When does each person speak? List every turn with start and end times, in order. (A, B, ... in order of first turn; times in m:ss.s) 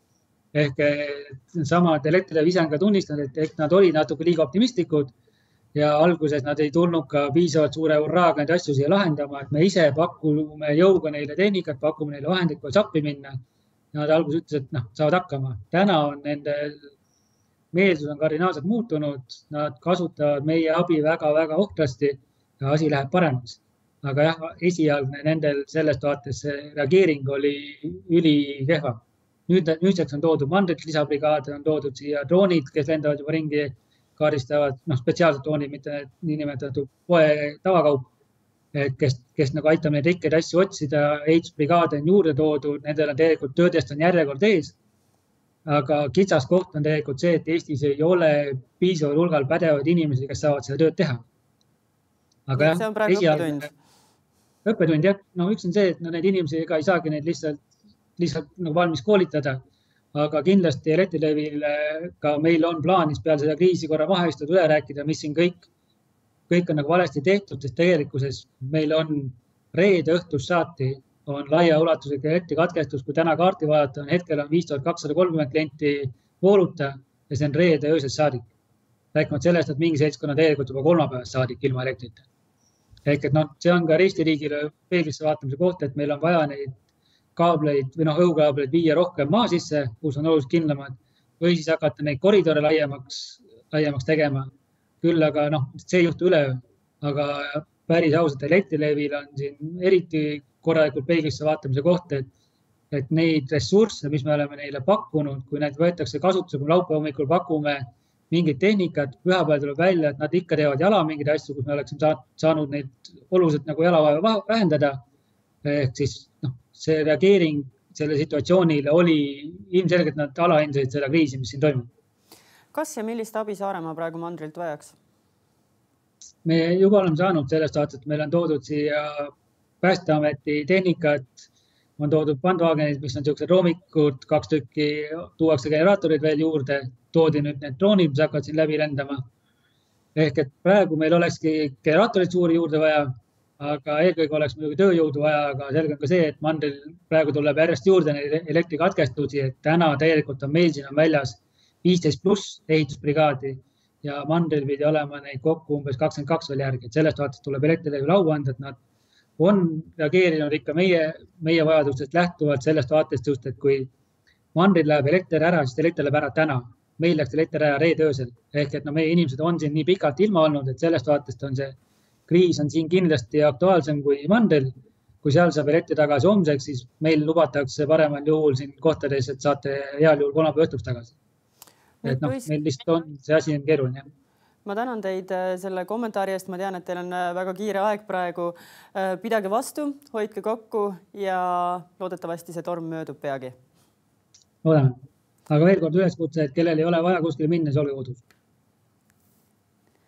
0:00.5-0:05.1 A
0:05.7-0:13.3 A
0:13.9-0:16.8 A
0:17.7-0:38.0 A
0:38.7-0:44.7 A
0:45.6-0:51.2 A
0:52.5-0:53.6 A
0:52.6-0:53.7 B
0:54.6-0:57.6 A
0:58.2-0:59.6 A
1:00.1-1:05.7 A
1:06.5-1:18.4 A
1:19.1-1:22.2 A
1:23.0-1:26.8 A
1:27.4-1:34.5 A
1:35.0-1:42.3 A
1:42.9-1:55.0 A
1:55.6-2:01.9 A
2:02.7-2:05.0 B
2:06.4-2:11.4 A
2:12.0-2:19.2 A
2:20.2-2:38.8 A
2:39.4-2:43.9 A
2:44.5-2:54.7 A
2:55.2-3:01.1 A
3:02.0-3:02.5 B
3:02.0-3:04.1 A
3:04.6-3:13.6 B
3:14.6-3:14.9 A
3:15.5-3:18.2 A